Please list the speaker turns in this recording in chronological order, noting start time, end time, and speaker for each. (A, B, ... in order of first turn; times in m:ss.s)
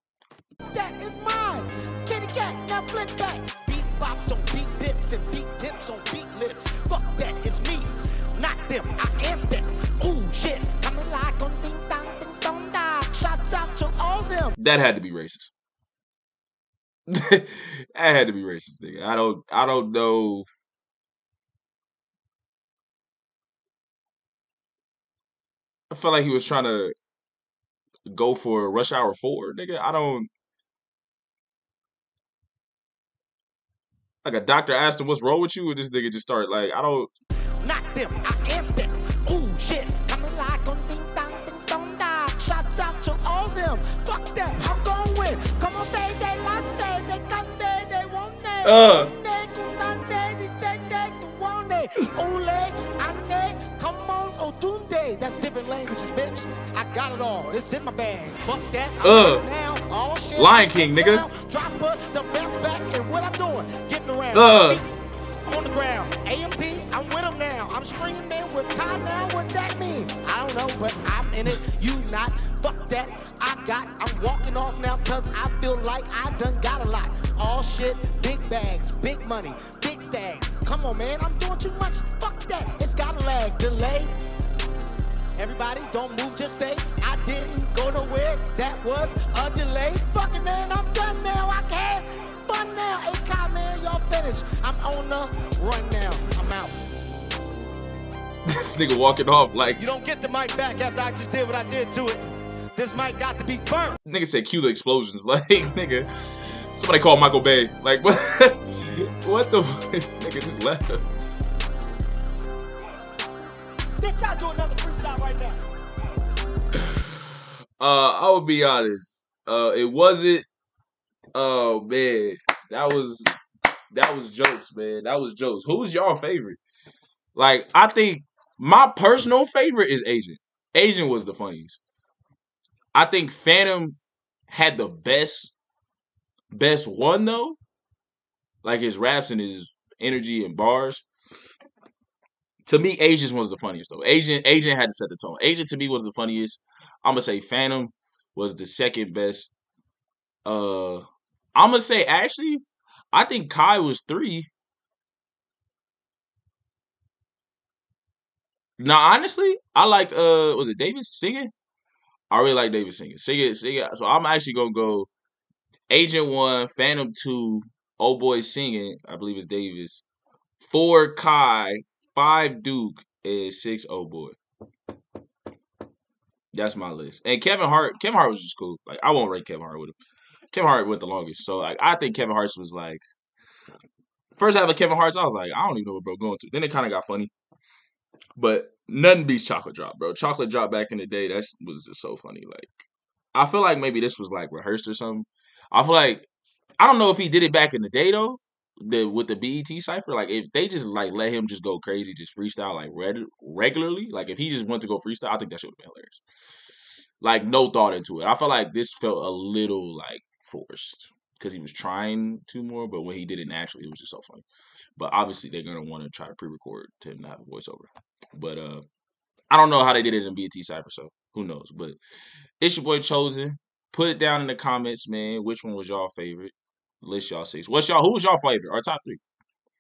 0:00.7-0:14.6 A
0:14.6-0:15.5 B
0:17.1-0:20.5 B
0:25.9-0:27.0 B
0:28.1-0:30.3 B
0:34.2-0:37.1 B
0:37.6-1:04.9 A
0:48.6-0:49.1 B
0:59.0-0:59.4 B
1:00.4-1:01.2 B
1:04.3-1:04.8 B
1:05.5-1:24.1 A
1:25.4-1:36.8 A
1:38.5-1:39.9 B
1:39.8-1:42.2 A
1:42.8-1:44.0 A
1:44.1-1:46.1 B
1:46.8-1:51.0 B
1:54.0-1:55.6 A
1:56.7-1:57.3 B
1:57.8-2:00.5 B
2:01.3-2:03.3 B
2:03.9-2:06.6 B
2:07.4-2:11.8 B
2:12.9-2:14.0 B
2:14.5-2:15.5 B
2:16.5-2:17.6 B
2:18.6-2:21.0 B
2:22.7-2:29.5 B
2:30.4-2:34.5 B
2:38.8-2:41.5 B
2:42.3-2:45.1 B
2:45.9-2:50.0 B
2:50.6-2:54.4 B
2:56.5-3:00.0 B
3:00.5-3:03.0 B
3:04.4-3:07.3 B
3:08.4-3:16.3 B
3:16.8-3:26.2 B
3:27.2-3:34.4 B
3:35.0-3:38.8 B
3:39.5-3:42.0 B
3:42.6-3:49.2 B